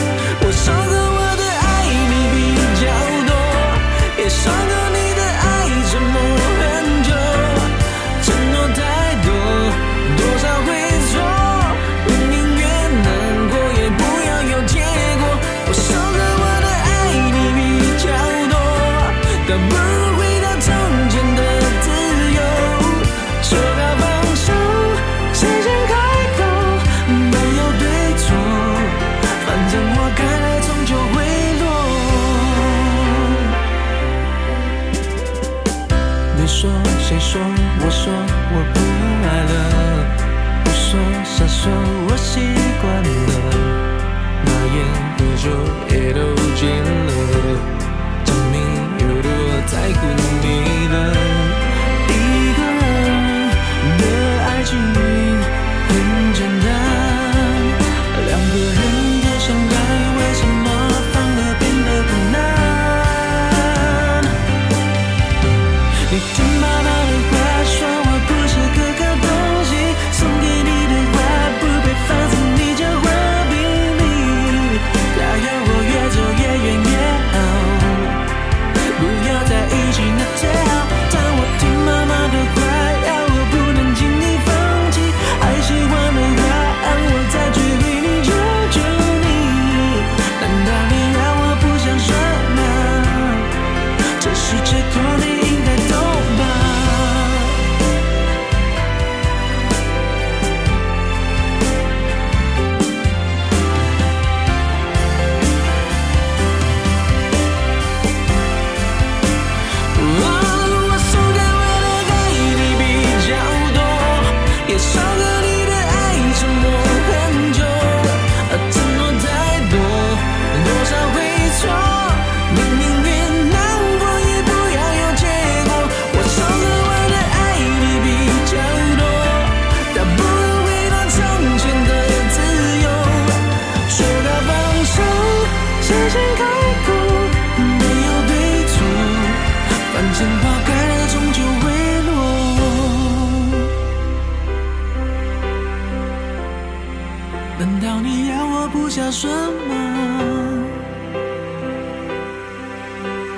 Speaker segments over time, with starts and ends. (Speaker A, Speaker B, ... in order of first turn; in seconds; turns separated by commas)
Speaker A: 0.4-33.5, Speaker A: 36.3-43.8, Speaker A: 44.4-47.7, Speaker A: 48.2-64.4, Speaker A: 66.1-78.2, Speaker A: 78.9-93.5, Speaker A: 94.2-97.6, Speaker A: 109.9-143.7, Speaker A: 147.6-150.8